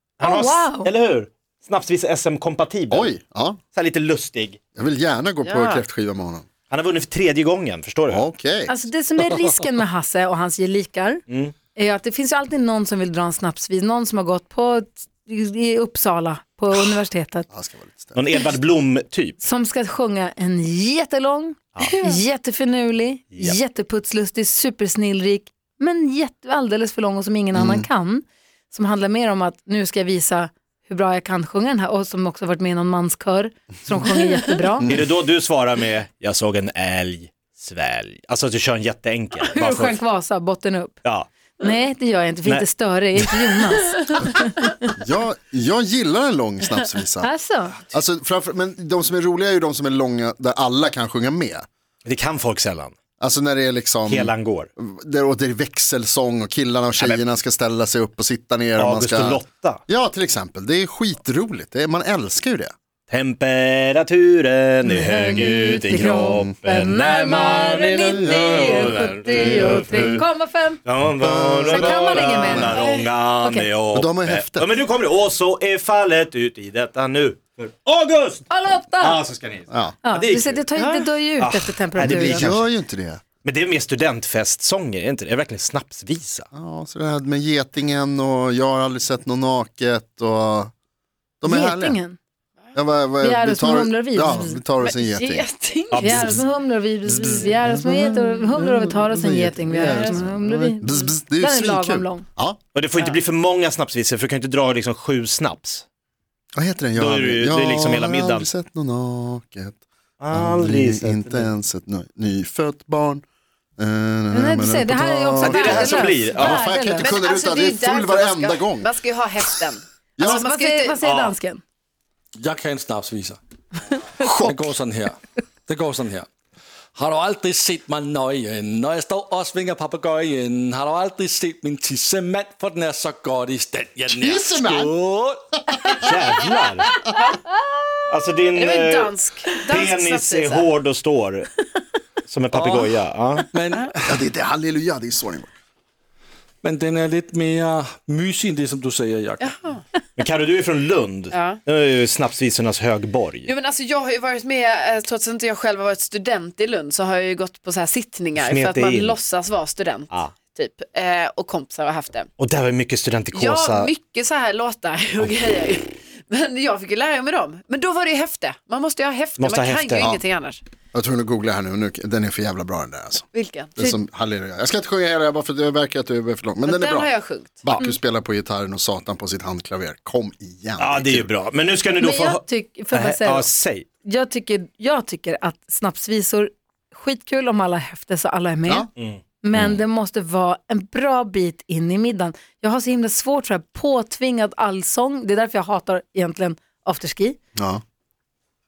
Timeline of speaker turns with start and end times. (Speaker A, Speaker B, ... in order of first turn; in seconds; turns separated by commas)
Speaker A: 0.2-3.1, Speaker B: 0.2-0.9, Speaker C: 2.9-3.6, Speaker A: 3.7-4.6, Speaker C: 4.8-6.5, Speaker D: 5.4-5.8, Speaker A: 6.7-8.2, Speaker C: 8.1-8.7, Speaker B: 8.7-11.2, Speaker A: 11.3-11.5, Speaker B: 11.7-17.5, Speaker C: 17.5-18.2, Speaker A: 18.1-19.4, Speaker B: 19.4-34.9, Speaker D: 21.8-22.2, Speaker C: 27.5-27.9, Speaker A: 34.9-40.0, Speaker B: 39.4-40.9, Speaker B: 41.6-44.9, Speaker A: 42.4-43.5, Speaker D: 44.0-44.3, Speaker C: 45.0-51.7, Speaker B: 47.2-47.8, Speaker A: 52.0-52.9, Speaker C: 53.2-62.7, Speaker A: 54.0-54.7, Speaker A: 57.0-57.2, Speaker A: 58.8-59.8, Speaker A: 63.1-70.2, Speaker B: 64.8-70.8, Speaker C: 69.5-70.1, Speaker A: 70.8-82.7, Speaker C: 71.2-72.8, Speaker B: 71.7-72.9, Speaker B: 73.4-73.7, Speaker C: 73.9-74.7, Speaker B: 78.5-79.2, Speaker C: 79.7-80.0, Speaker B: 80.0-82.5, Speaker C: 82.0-83.2, Speaker A: 83.4-86.5, Speaker C: 86.5-90.7, Speaker C: 91.4-92.0, Speaker B: 91.4-92.2, Speaker C: 92.7-95.5, Speaker B: 93.2-94.6, Speaker D: 94.8-96.3, Speaker A: 95.9-96.4, Speaker B: 96.0-102.2, Speaker C: 96.1-96.4, Speaker C: 97.0-102.6, Speaker D: 99.8-100.2, Speaker A: 102.7-105.8, Speaker C: 106.5-113.2, Speaker A: 107.0-108.5, Speaker A: 110.2-111.5, Speaker C: 113.8-118.9, Speaker B: 114.3-117.1, Speaker A: 115.4-116.8, Speaker D: 115.5-115.9, Speaker D: 116.9-121.0, Speaker B: 120.2-121.6, Speaker A: 121.0-121.3, Speaker E: 122.3-123.4, Speaker C: 124.2-124.6, Speaker E: 124.5-126.3, Speaker E: 126.9-135.4, Speaker C: 134.1-134.9, Speaker C: 135.7-136.2, Speaker A: 136.0-137.0, Speaker A: 138.1-141.6, Speaker D: 138.5-140.7, Speaker A: 142.3-143.5, Speaker E: 142.5-143.0, Speaker E: 143.5-143.9, Speaker C: 144.0-145.5, Speaker E: 146.6-149.6, Speaker D: 149.4-149.8, Speaker A: 150.2-153.5, Speaker D: 151.3-151.6, Speaker D: 153.4-162.3, Speaker A: 158.3-159.2, Speaker A: 162.4-163.9, Speaker D: 163.3-170.6, Speaker A: 169.4-170.2, Speaker C: 170.9-181.3, Speaker D: 173.3-173.9, Speaker D: 176.6-177.7, Speaker A: 180.8-183.8, Speaker B: 182.0-183.5, Speaker B: 184.0-188.9, Speaker B: 189.4-197.4, Speaker C: 197.6-197.8